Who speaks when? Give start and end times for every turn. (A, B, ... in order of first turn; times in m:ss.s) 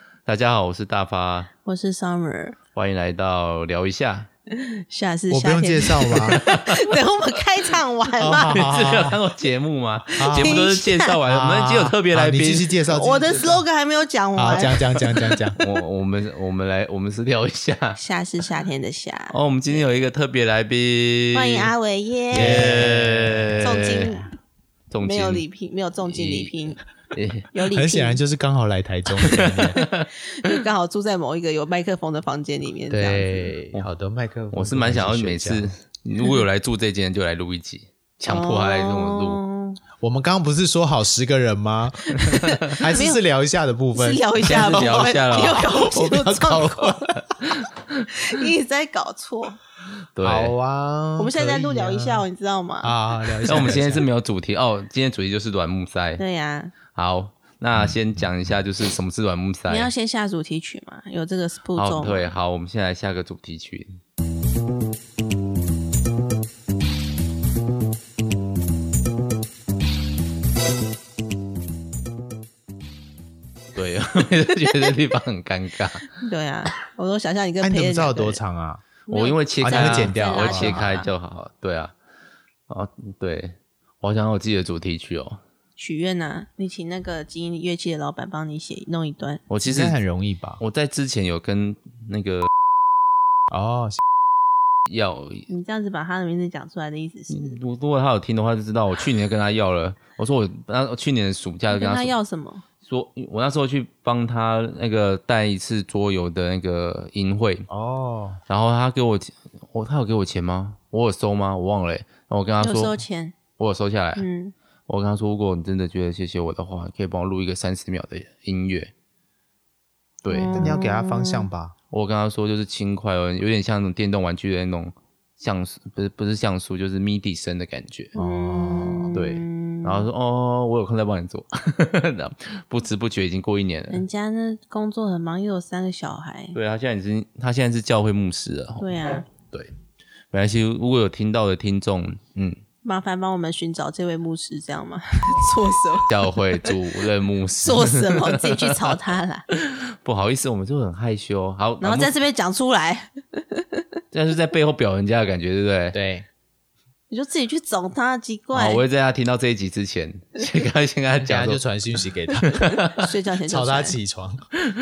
0:00.2-0:01.5 A
0:01.6-0:02.6 B
0:02.7-0:04.3 A
0:04.5-0:08.8 B
0:05.3-0:06.4 C
0:08.2-0:09.2 C
0:08.3-0:13.4 A
0:10.2-0:10.7 C
0:10.2-0:11.2 B
0:11.3-0:13.6 C
0:12.9-0:15.6 B
0:14.4-0:15.6 C
0:15.6-0:18.0 A
0:18.0-0:19.9 B
0:19.3-0:21.7 A
0:21.3-0:22.8 B
0:22.3-0:24.1 A
0:22.3-0:24.2 C
0:23.6-0:24.3 B
0:24.9-0:25.4 A
0:25.0-0:26.8 B
0:26.0-0:27.5 A
0:27.5-0:28.2 B
0:27.7-0:29.8 C
0:29.2-0:30.0 A
0:30.1-0:33.5 B
0:32.9-0:35.7 C
0:34.5-0:39.4 A
0:38.2-0:39.8 B
0:40.0-0:47.0 C
0:42.2-0:43.2 B
0:43.9-0:47.2 B
0:44.4-0:45.7 A
0:48.2-0:49.6 B
0:50.1-0:50.5 A
0:50.2-0:52.2 C
0:51.2-0:53.9 B
0:52.8-0:54.0 C
0:53.5-0:56.2 A
0:56.2-0:56.8 B
0:56.9-0:59.9 A
0:59.7-1:02.3 B
1:01.8-1:04.0 A
1:13.7-1:16.1 A
1:16.1-1:18.4 B
1:17.6-1:18.8 C
1:19.1-1:21.9 A
1:19.1-1:21.1 B
1:19.6-1:21.0 C
1:22.7-1:25.4 A
1:25.8-1:29.5 B
1:29.5-1:30.0 A
1:29.6-1:30.6 C
1:30.6-1:32.5 A
1:33.5-1:34.0 C
1:34.9-1:35.5 A
1:35.5-1:37.6 B
1:37.3-1:42.1 A
1:41.7-1:42.6 B
1:42.8-1:47.7 A
1:47.7-1:48.4 C
1:48.5-1:53.0 A
1:52.6-1:53.4 B
1:53.6-1:54.2 A
1:54.2-1:54.5 B
1:54.9-1:58.9 A
2:00.2-2:00.8 A
2:00.3-2:01.5 B
2:00.5-2:01.7 C
2:01.9-2:08.1 A
2:08.1-2:10.1 B
2:08.2-2:09.2 C
2:09.1-2:14.0 A
2:13.9-2:16.6 B
2:16.5-2:19.7 A
2:18.8-2:19.3 B
2:20.3-2:22.6 A
2:22.8-2:26.8 B
2:26.1-2:28.8 A
2:27.6-2:29.4 B
2:29.5-2:32.1 A
2:31.8-2:33.8 B
2:34.1-2:36.0 A
2:35.9-2:36.3 C
2:37.1-2:38.8 B
2:38.5-2:41.6 A
2:41.2-2:42.6 C
2:42.4-2:43.0 A
2:42.9-2:44.0 B
2:43.4-2:44.4 C